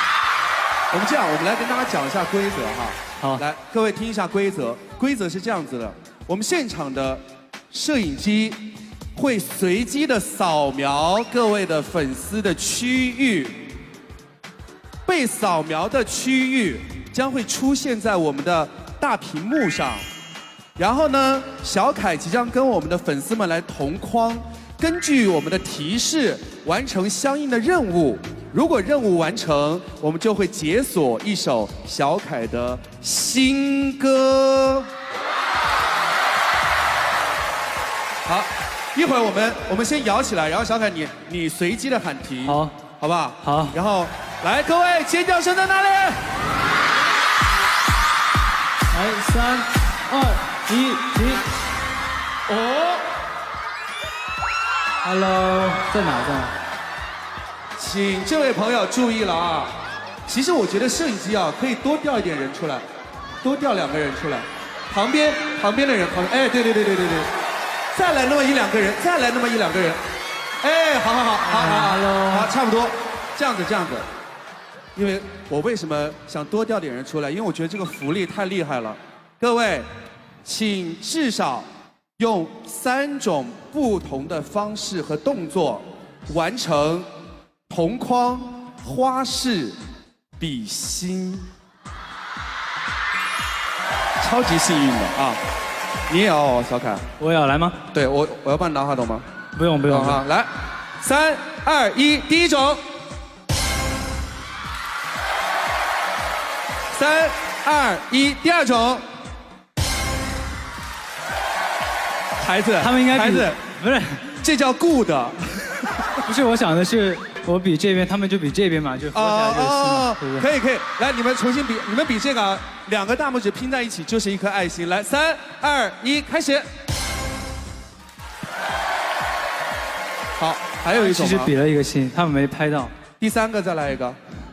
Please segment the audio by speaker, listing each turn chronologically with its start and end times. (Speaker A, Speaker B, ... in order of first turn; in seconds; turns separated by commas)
Speaker A: 0.9-8.6, Speaker A: 9.2-13.7, Speaker A: 15.1-20.1, Speaker A: 20.8-34.9, Speaker A: 38.3-46.2, Speaker B: 42.5-42.8, Speaker B: 43.4-43.8, Speaker B: 48.9-51.4, Speaker A: 52.5-53.0, Speaker B: 55.0-56.6, Speaker A: 57.8-62.8, Speaker A: 63.4-67.3, Speaker A: 67.9-70.0, Speaker A: 70.6-74.1, Speaker B: 71.4-72.5, Speaker A: 75.0-79.9, Speaker A: 80.5-81.7, Speaker A: 82.2-87.1, Speaker A: 87.7-89.8, Speaker A: 90.4-91.5, Speaker A: 94.2-95.4, Speaker A: 96.1-97.0, Speaker B: 97.2-97.8, Speaker A: 97.9-99.2, Speaker B: 99.6-100.2, Speaker A: 99.9-100.5, Speaker A: 101.0-102.8, Speaker A: 106.9-109.0, Speaker A: 112.4-113.6, Speaker B: 112.8-114.2, Speaker A: 114.4-115.9, Speaker B: 116.3-120.5, Speaker A: 119.2-126.7, Speaker A: 130.4-131.5, Speaker B: 130.9-132.9, Speaker A: 133.2-134.2